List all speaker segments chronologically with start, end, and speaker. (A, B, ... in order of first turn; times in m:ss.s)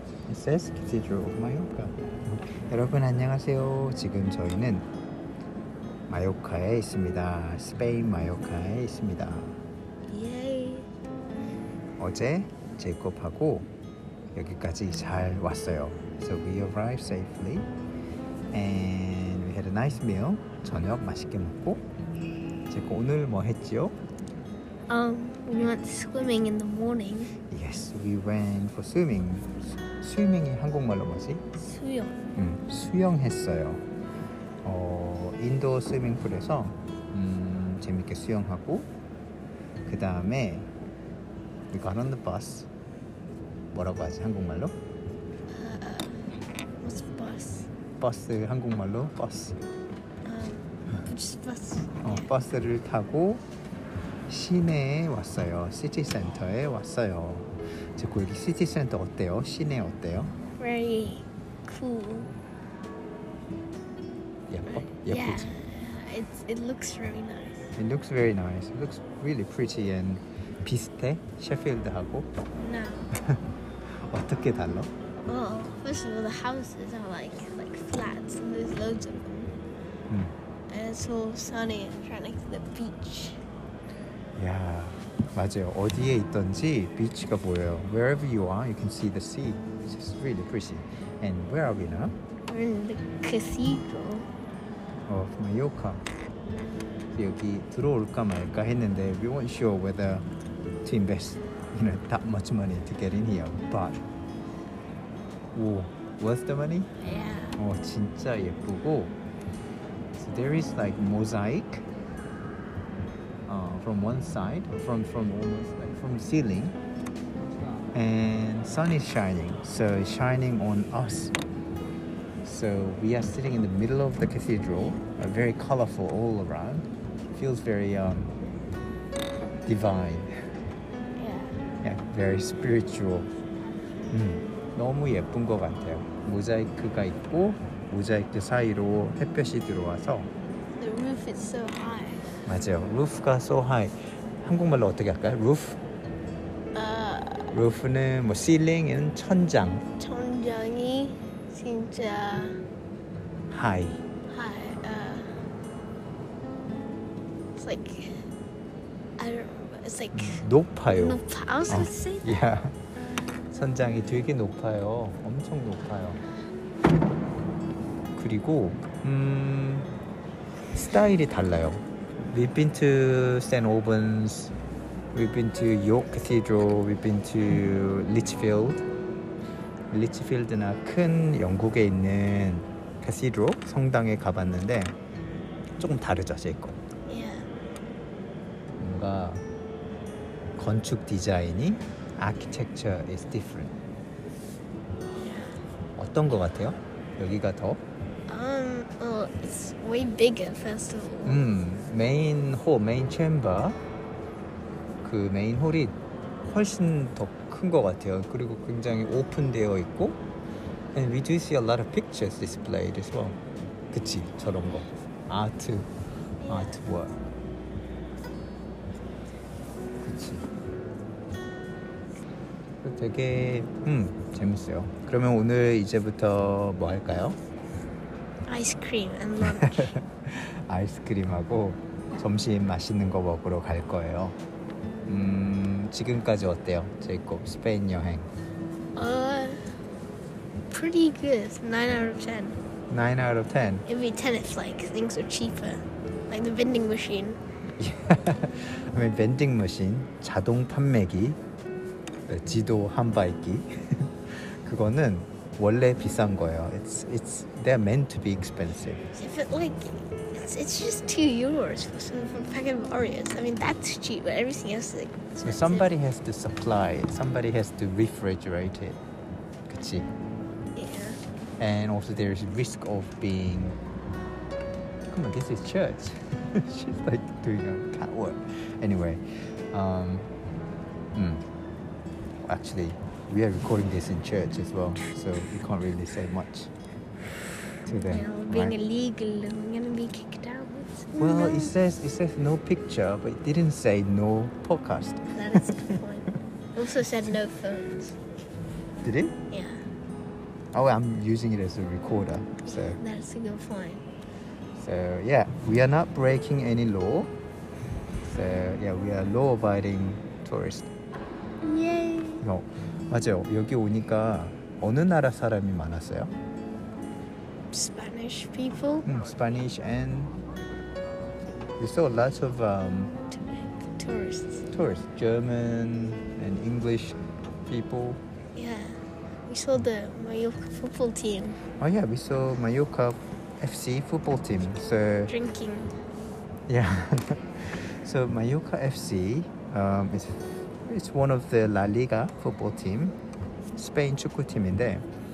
0:00.3-0:04.8 A
0:06.1-0:09.6 A
0:10.1-0:10.9 B
0:12.0-0:13.7 A
0:14.3-0:17.7 A
0:18.5-0:21.8 A
0:22.7-0:23.9 A
0:24.9-0:27.3 B
0:27.5-0:31.4 A
0:31.6-0:32.2 B
0:32.3-0:33.8 A
0:34.6-0:38.9 A
0:39.8-0:40.7 A
0:41.7-0:42.7 A
0:43.7-0:44.7 A
0:45.5-0:46.2 B
0:46.8-0:47.7 B
0:48.0-0:49.6 A
0:50.2-0:52.2 B
0:52.0-0:53.4 A
0:54.3-1:00.3 A
1:00.6-1:02.3 B
1:04.5-1:05.6 A
1:04.8-1:07.7 B
1:07.8-1:12.3 A
1:12.6-1:13.1 B
1:14.1-1:14.9 A
1:15.2-1:19.6 B
1:20.1-1:20.3 A
1:20.7-1:23.4 B
1:24.4-1:32.1 A
1:32.5-1:34.3 B
1:35.1-1:36.0 A
1:37.1-1:40.2 A
1:40.8-1:44.0 A
1:45.5-1:46.9 A
1:47.0-1:47.6 B
1:47.6-1:49.1 A
1:50.2-1:51.8 A
1:53.5-1:56.8 A
1:57.9-2:01.3 A
2:02.4-2:08.3 A
2:09.6-2:10.3 A
2:11.2-2:11.6 B
2:11.8-2:13.3 A
2:14.1-2:20.3 A
2:20.8-2:22.3 B
2:22.4-2:25.8 A
2:26.7-2:27.5 B
2:27.5-2:29.8 A
2:30.0-2:32.6 B
2:33.5-2:34.0 A
2:34.3-2:35.3 B
2:37.6-2:38.2 B
2:39.2-2:42.4 B
2:40.1-2:42.8 A
2:43.5-2:46.2 A
2:48.1-2:49.9 A
2:50.7-2:54.5 A
2:55.1-2:58.8 A
2:59.9-3:04.9 A
3:05.8-3:06.8 A
3:07.1-3:07.5 B
3:08.8-3:09.4 A
3:10.6-3:13.8 A
3:15.1-3:15.6 B
3:16.0-3:17.8 A
3:18.3-3:21.4 B
3:21.2-3:23.8 A
3:25.0-3:25.9 A
3:26.4-3:30.2 A
3:30.9-3:33.4 A
3:33.9-3:35.9 A
3:36.4-3:36.8 B
3:36.4-3:37.1 A
3:40.0-3:40.5 A
3:42.8-3:47.4 A
3:48.5-3:50.0 B
3:49.4-3:54.4 A
3:55.1-3:58.3 A
3:59.0-3:59.6 B
4:00.7-4:02.6 B
4:02.9-4:03.8 A
4:03.8-4:07.4 B
4:07.8-4:11.4 A
4:12.3-4:19.0 A
4:19.1-4:25.9 B
4:25.4-4:29.0 A
4:29.7-4:30.1 A
4:30.8-4:31.2 B
4:31.6-4:33.8 A
4:35.1-4:40.3 A
4:41.1-4:41.4 A
4:42.4-4:46.7 A
4:47.8-4:48.8 A
4:48.1-4:51.7 B
4:51.2-4:55.8 A
4:55.3-4:58.2 B
4:59.0-4:59.4 A
4:59.5-4:59.8 B
5:00.7-5:03.0 A
5:02.7-5:04.0 B
5:04.8-5:07.3 A
5:08.2-5:10.9 A
5:11.6-5:12.5 B
5:12.4-5:16.3 A
5:17.7-5:19.0 B
5:19.0-5:20.3 A
5:21.8-5:23.1 A
5:23.3-5:24.7 B
5:24.7-5:28.2 A
5:28.6-5:31.6 B
5:31.8-5:35.3 A
5:35.3-5:35.9 B
5:36.7-5:43.1 A
5:43.8-5:45.0 A